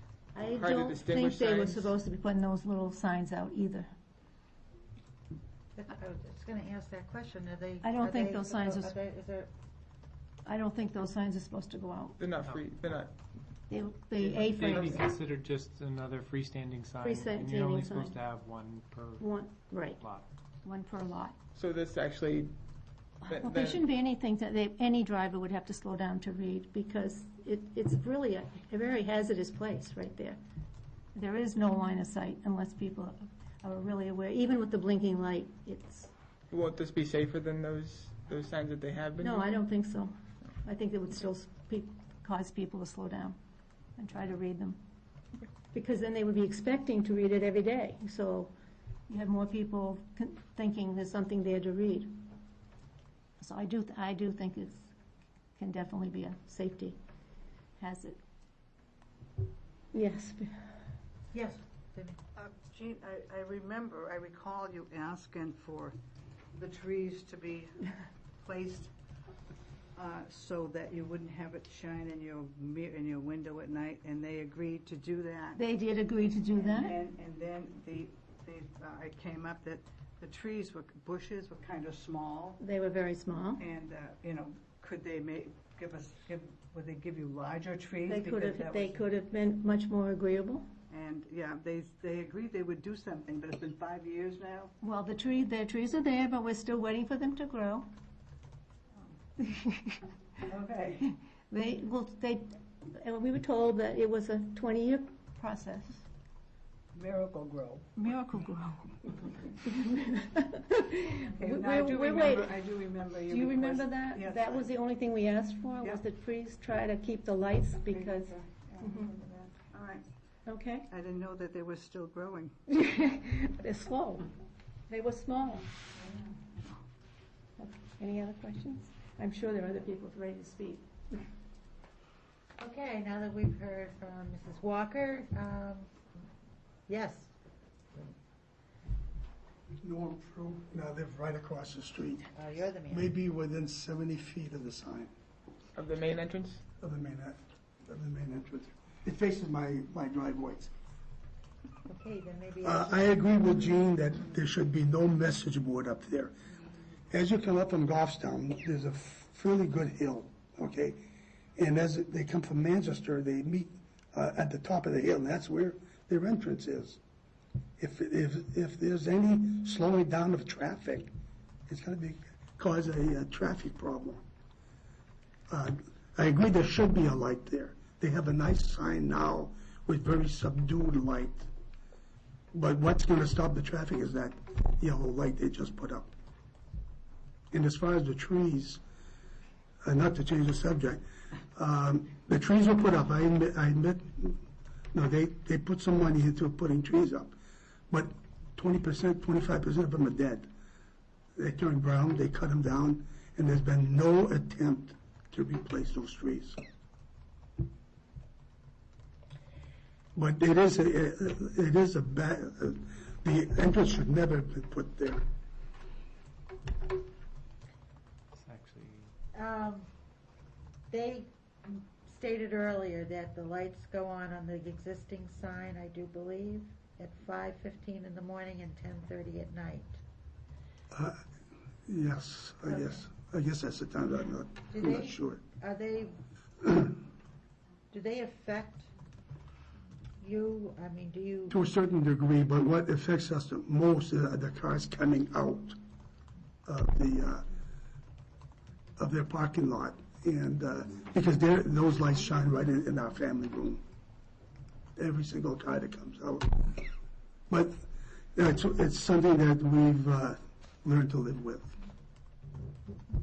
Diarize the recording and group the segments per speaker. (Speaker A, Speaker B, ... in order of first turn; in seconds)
Speaker A: 0.3-3.9, 7.8-9.0, 10.4-12.3, 13.7-15.1, 17.0-18.2, 19.2-20.0, 20.6-21.4, 23.2-30.4, 31.1-36.1, 39.2-43.4, 44.0-44.8, 45.7-48.5, 49.1-52.2, 53.4-54.9, 55.6-57.0, 57.8-58.2, 59.9-60.7, 75.6-77.0, 82.6-83.7, 88.0-90.7, 94.8-97.9, 99.4-100.0, 101.5-106.0, 108.0-112.6, 113.3-119.2, 120.5-120.9, 122.7-124.3, 124.9-125.7, 127.6-131.2
Speaker B: 0.4-1.9, 12.2-13.2, 21.6-22.5, 23.3-23.8, 36.5-39.5, 145.8-146.6
Speaker C: 5.8-9.5, 61.3-62.2, 132.6-136.1, 136.9-137.3, 142.3-143.1, 151.9-153.4, 219.3-219.9, 220.9-230.0, 232.7-233.0, 234.7-236.2, 237.9-238.9, 240.2-241.6
Speaker D: 14.2-19.3, 20.0-20.3, 218.4-219.1
Speaker E: 62.4-66.0, 66.6-68.9, 70.0-75.6, 76.5-82.6, 83.6-89.1, 90.9-94.7, 100.5-101.1, 106.9-107.9, 111.3-114.7, 117.9-120.1, 120.9-122.6, 126.0-126.8
Speaker F: 139.8-142.3, 142.9-145.1, 146.8-150.7, 152.6-156.3, 157.1-161.0, 161.6-167.0, 167.8-171.1, 171.7-174.2, 175.5-181.5, 182.5-186.1, 187.5-188.8, 189.8-191.0, 191.6-194.4, 194.9-197.4, 197.9-200.5, 201.4-206.6, 210.2-215.2, 230.9-231.2, 231.9-235.4, 241.5-245.8, 246.7-247.5, 249.0-253.8, 255.0-256.9, 257.5-257.8, 258.4-261.8